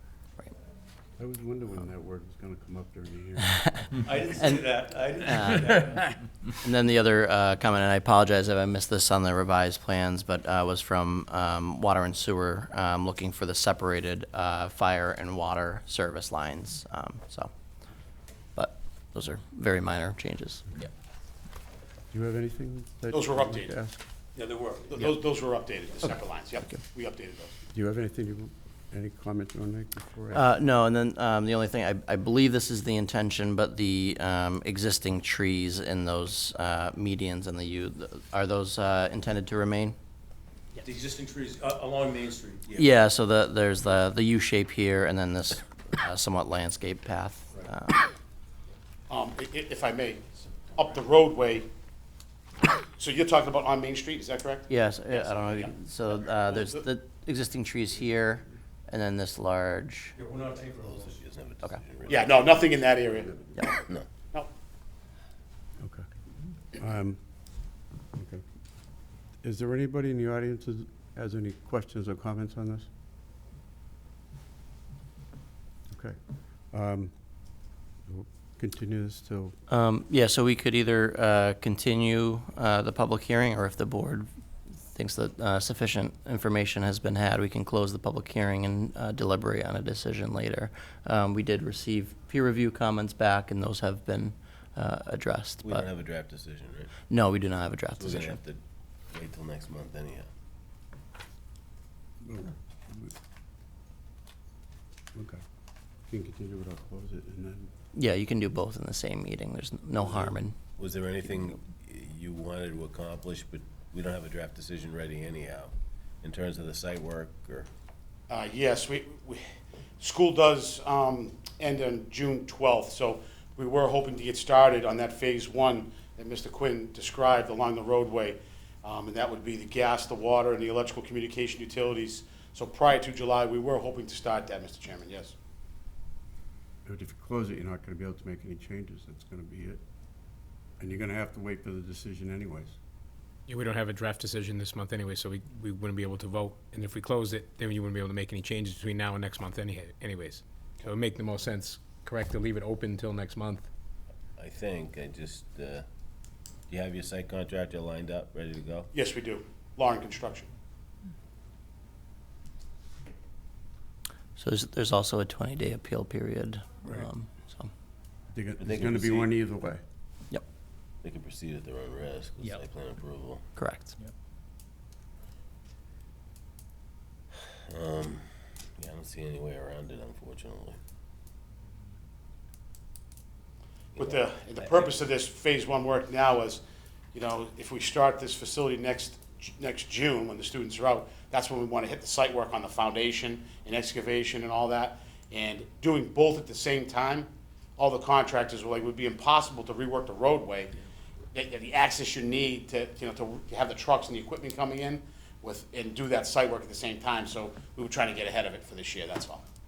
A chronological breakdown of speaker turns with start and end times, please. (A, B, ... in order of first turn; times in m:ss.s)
0:01.2-0:04.1 A
0:04.0-0:06.1 B
0:04.2-0:17.5 C
0:18.6-0:20.6 C
0:22.1-0:24.0 A
0:23.1-0:23.7 D
0:24.4-0:25.0 B
0:24.9-0:27.5 D
0:27.7-0:30.5 A
0:30.3-0:40.0 C
0:40.8-0:42.8 B
0:42.8-0:48.1 C
0:49.1-0:51.7 D
0:53.0-0:55.7 D
0:54.7-1:00.2 C
0:56.4-0:56.8 D
1:00.2-1:01.2 B
1:00.8-1:03.0 E
1:02.1-1:03.3 D
1:03.6-1:04.1 E
1:05.8-1:06.1 A
1:06.7-1:07.2 A
1:08.1-1:08.4 A
1:09.4-1:12.9 A
1:15.9-1:16.2 A
1:16.7-1:17.1 A
1:18.1-1:19.5 A
1:19.7-1:24.3 C
1:24.9-1:35.9 C
1:35.6-1:36.9 E
1:37.1-1:38.4 C
1:38.0-1:40.3 E
1:42.2-1:43.1 A
1:45.1-1:45.4 A
1:46.1-1:47.7 A
1:47.9-1:50.6 C
1:50.8-1:55.7 E
1:56.2-1:57.7 E
1:58.3-1:59.4 D
2:00.0-2:15.3 D
2:16.8-2:19.8 A
2:20.8-2:22.8 A
2:23.5-2:33.7 F
2:34.4-2:35.9 E
2:36.7-2:38.9 E
2:38.9-2:40.5 D
2:44.4-2:47.7 C
2:48.3-2:49.8 A
2:48.6-2:49.3 E
2:51.0-2:53.4 E
2:53.6-2:54.0 C
2:57.7-2:58.3 E
2:58.8-3:00.8 E
3:04.0-3:04.9 E
3:04.0-3:06.6 D
3:07.1-3:20.8 D
3:21.3-3:29.4 D